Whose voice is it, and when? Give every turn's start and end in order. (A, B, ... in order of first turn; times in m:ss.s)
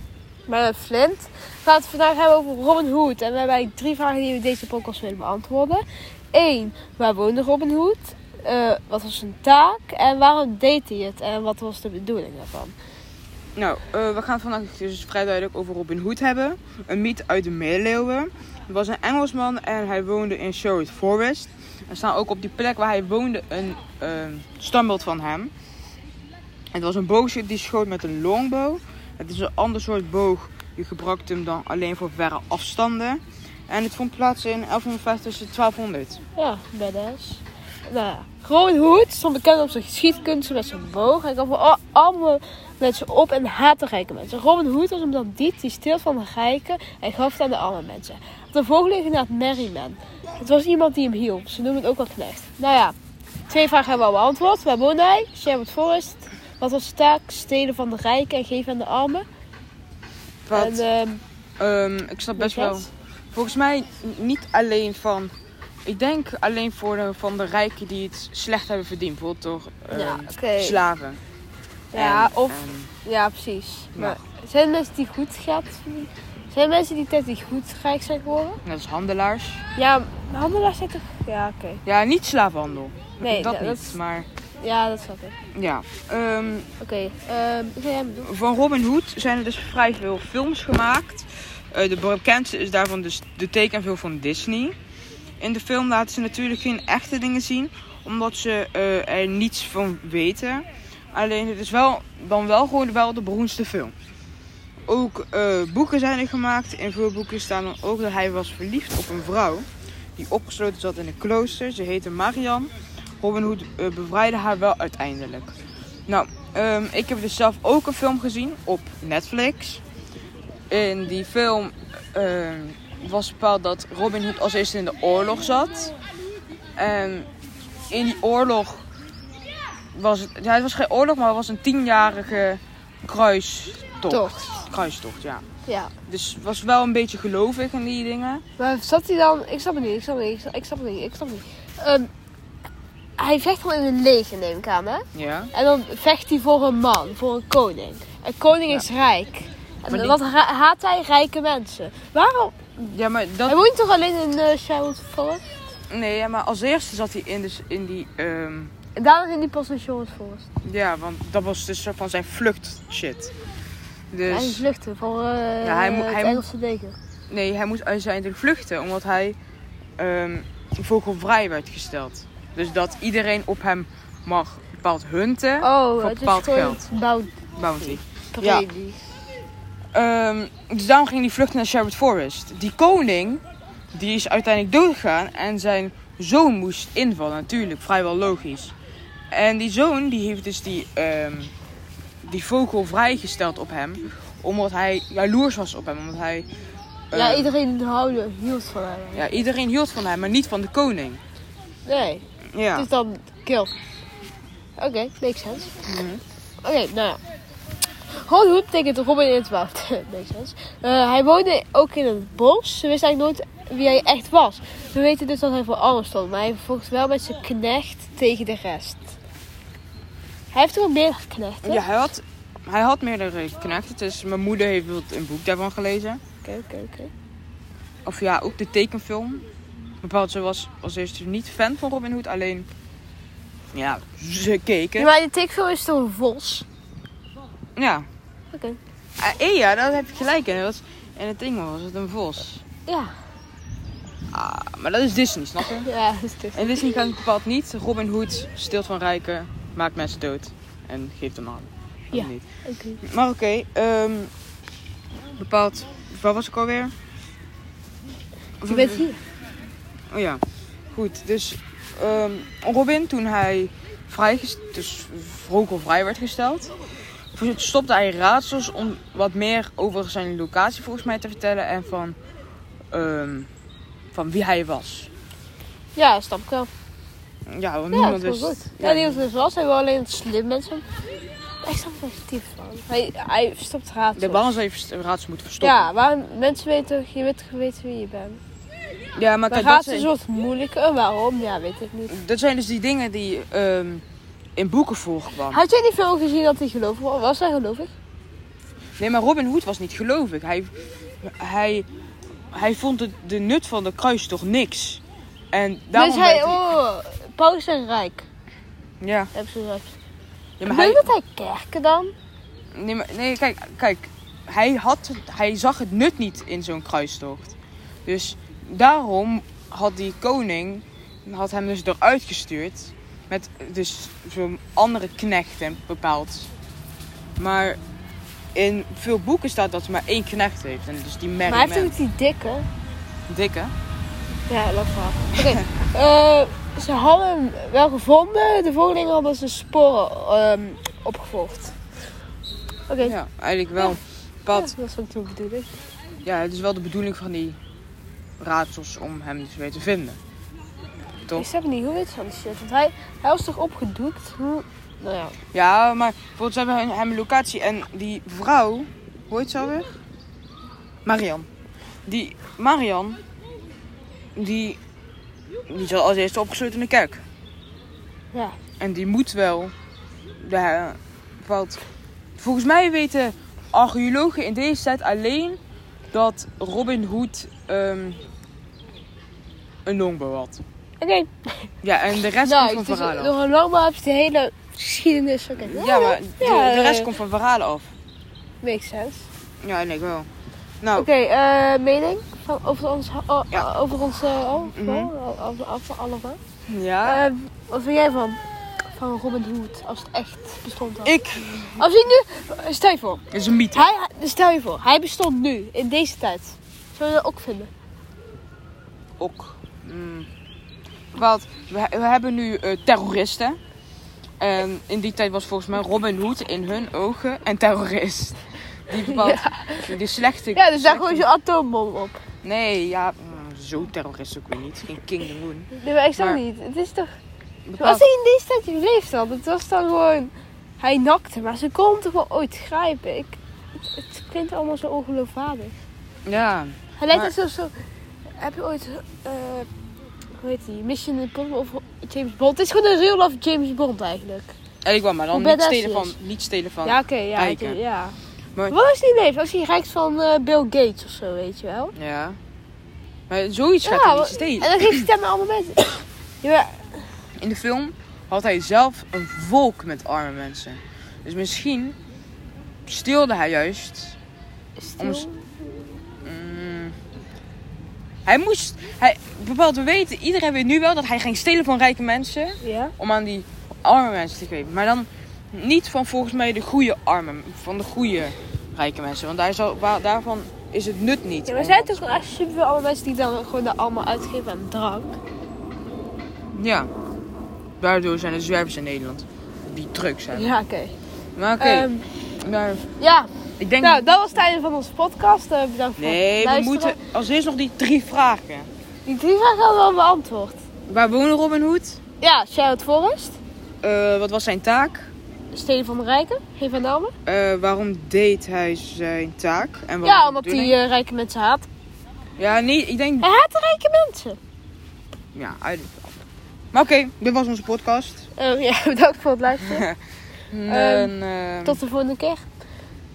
0:00.5-0:05.8 A
0:06.3-0:12.8 A
0:13.6-0:25.5 B
0:26.7-0:36.2 B
0:36.4-0:53.0 A
0:53.5-0:59.3 A
1:00.5-1:00.8 B
1:00.5-1:01.2 A
1:01.6-1:05.3 B
1:02.4-1:02.9 A
1:05.9-1:11.2 B
1:09.9-1:10.8 A
1:11.9-1:18.6 A
1:12.0-1:12.9 B
1:18.6-1:19.7 B
1:19.8-1:21.8 A
1:21.8-1:24.3 B
1:23.2-1:23.9 A
1:24.6-1:25.4 A
1:25.6-1:26.7 B
1:26.8-1:28.3 A
1:28.2-1:34.8 B
1:35.4-1:43.9 B
1:44.9-1:55.6 B
1:56.1-1:59.8 B
2:00.7-2:05.9 B
2:06.8-2:07.3 B
2:07.9-2:08.9 B
2:10.0-2:15.4 B
2:14.1-2:14.6 A
2:15.7-2:15.9 A
2:16.1-2:18.4 B
2:18.6-2:22.1 A
2:23.2-2:32.6 A
2:25.1-2:25.5 B
2:29.9-2:30.2 B
2:32.8-2:33.6 B
2:33.5-2:35.6 A
2:35.9-2:38.7 B
2:39.0-2:40.5 A
2:40.6-2:43.3 B
2:44.1-2:44.6 B
2:44.3-2:47.0 A
2:45.6-2:46.4 B
2:47.3-2:49.4 B
2:50.0-2:56.9 B
2:55.6-2:59.0 A
2:57.6-2:58.7 B
2:59.9-3:03.4 B
3:03.9-3:08.8 B
3:09.3-3:11.5 B
3:12.2-3:16.5 B
3:17.1-3:17.5 B
3:17.1-3:19.4 A
3:19.2-3:21.2 B
3:21.9-3:22.2 A
3:22.5-3:22.9 B
3:22.8-3:23.7 A
3:24.8-3:25.7 A
3:25.9-3:26.2 B
3:26.6-3:27.2 A
3:28.1-3:39.2 A
3:40.5-3:41.8 A
3:41.6-3:46.2 B
3:46.4-3:47.1 A
3:48.0-3:49.5 B
3:50.0-3:52.7 B
3:53.7-3:55.1 B
3:55.0-3:56.7 A
3:57.8-3:58.1 B
3:58.5-3:58.8 A
3:59.2-4:02.6 B
4:02.9-4:03.1 A
4:04.3-4:05.9 B
4:05.6-4:06.9 A
4:06.6-4:12.4 B
4:12.1-4:13.0 A
4:13.0-4:14.3 B
4:15.4-4:16.9 B
4:18.6-4:19.1 B
4:18.7-4:19.2 A
4:20.1-4:20.4 B
4:20.9-4:26.7 B
4:27.3-4:32.2 B
4:32.9-4:33.5 B
4:34.1-4:35.1 B
4:36.0-4:36.7 A
4:37.5-4:39.3 B
4:37.9-4:40.8 A
4:41.6-4:44.5 A
4:44.2-4:45.9 B
4:45.6-4:48.4 A
4:49.2-4:50.1 B
4:49.5-4:52.1 A
4:52.1-4:54.0 B
4:54.6-4:55.6 B
4:55.5-4:57.9 A
4:59.0-5:00.7 B
5:01.2-5:01.9 B
5:02.5-5:06.6 B
5:05.9-5:08.2 A
5:09.0-5:09.3 B
5:09.3-5:09.9 A
5:10.6-5:11.1 B
5:10.7-5:12.1 A
5:12.8-5:26.5 B
5:27.4-5:27.8 B
5:28.6-5:32.0 B
5:31.5-5:32.7 A
5:33.3-5:33.7 B
5:34.5-5:41.8 A
5:42.9-5:43.2 A
5:43.0-5:44.8 B
5:44.5-5:45.8 A
5:46.2-5:47.6 B
5:48.4-5:50.2 B
5:51.3-5:55.4 A
5:55.5-6:00.0 B
6:01.0-6:01.5 B
6:02.1-6:03.2 B
6:04.4-6:04.8 B
6:05.7-6:07.2 B
6:08.8-6:09.7 B
6:10.4-6:11.8 B
6:12.4-6:15.6 B
6:16.1-6:18.2 B
6:19.9-6:20.6 B
6:21.0-6:21.3 A
6:21.8-6:23.3 B
6:22.4-6:27.1 A
6:25.6-6:27.9 B
6:28.6-6:29.3 A
6:29.6-6:30.3 B
6:30.8-6:31.1 B
6:31.0-6:36.4 A
6:34.7-6:35.1 B
6:36.7-6:37.3 B
6:37.0-6:38.4 A
6:39.0-6:47.7 A
6:41.0-6:41.8 B
6:43.3-6:43.9 B
6:49.2-6:50.3 B
6:51.1-6:53.6 B
6:54.4-7:01.3 B
6:59.0-7:00.0 A
7:00.5-7:02.2 A
7:02.4-7:06.4 B
7:05.8-7:07.1 A
7:07.7-7:08.1 B
7:07.8-7:13.4 A
7:13.9-7:15.7 A
7:16.3-7:17.3 B
7:17.0-7:17.7 A
7:18.4-7:19.7 A
7:20.4-7:24.5 A
7:24.8-7:27.8 B
7:25.3-7:26.2 A
7:26.8-7:28.2 A
7:28.7-7:31.9 A
7:32.0-7:32.4 B
7:33.3-7:35.1 B
7:33.8-7:37.1 A
7:37.4-7:42.0 B
7:42.9-7:44.2 B
7:44.8-7:45.6 A
7:45.0-7:45.3 B
7:46.2-7:47.0 B
7:48.2-8:02.2 B
7:52.6-7:52.9 A
8:01.5-8:05.2 A
8:06.5-8:06.9 B
8:07.8-8:10.6 B
8:10.3-8:11.0 A
8:11.4-8:11.9 B
8:11.6-8:12.1 A
8:12.4-8:12.9 B
8:13.0-8:17.0 A
8:13.6-8:14.4 B
8:16.0-8:18.7 B
8:19.0-8:20.6 A
8:20.9-8:22.0 B
8:22.2-8:23.4 A
8:23.8-8:25.1 B
8:25.5-8:27.1 A
8:27.3-8:30.8 B
8:30.0-8:31.7 A
8:32.4-8:33.3 B
8:33.2-8:34.4 A
8:35.4-8:36.2 B
8:36.7-8:38.3 B
8:38.4-8:39.9 A
8:40.5-8:41.8 B
8:40.7-8:41.1 A
8:41.6-8:42.4 A